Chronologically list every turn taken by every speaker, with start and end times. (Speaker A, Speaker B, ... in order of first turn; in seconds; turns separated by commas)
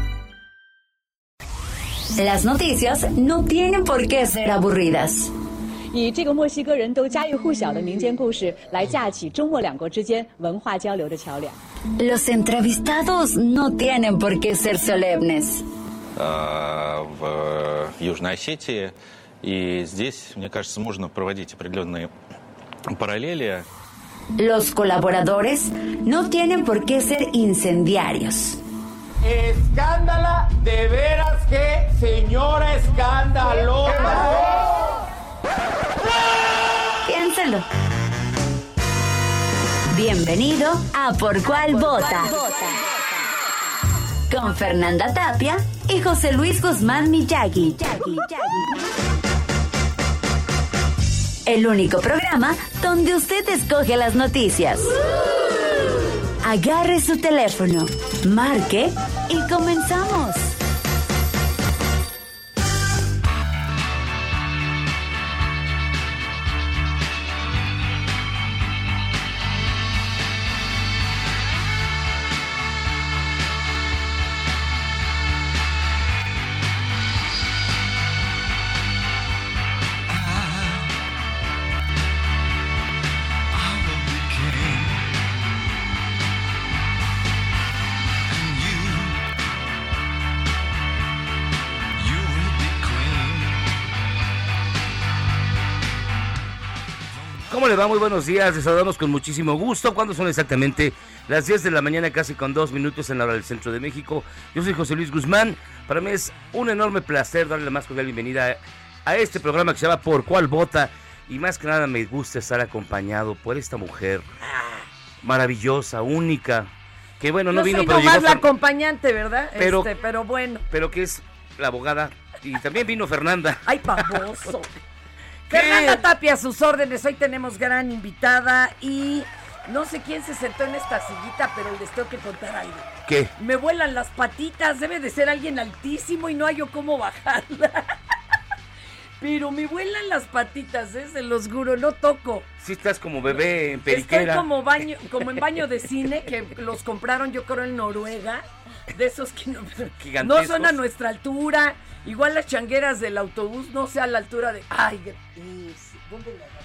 Speaker A: 2.2-5.3, Speaker B: 5.9-11.6, Speaker A: 12.0-15.6, Speaker C: 16.1-22.1, Speaker C: 22.9-23.6, Speaker A: 24.4-28.6, Speaker D: 29.2-34.8, Speaker A: 37.0-37.7, Speaker A: 39.9-43.0, Speaker A: 44.3-48.7, Speaker A: 51.5-54.9, Speaker A: 56.4-60.5, Speaker E: 97.5-114.3, Speaker F: 114.4-114.8, Speaker E: 115.2-118.5, Speaker F: 117.5-120.6, Speaker E: 119.6-119.9, Speaker E: 120.7-124.5, Speaker F: 123.7-124.7, Speaker E: 125.5-126.0, Speaker F: 125.5-137.8, Speaker E: 133.1-133.3, Speaker F: 139.2-142.5, Speaker E: 142.6-144.5, Speaker F: 143.9-156.5, Speaker E: 150.0-150.8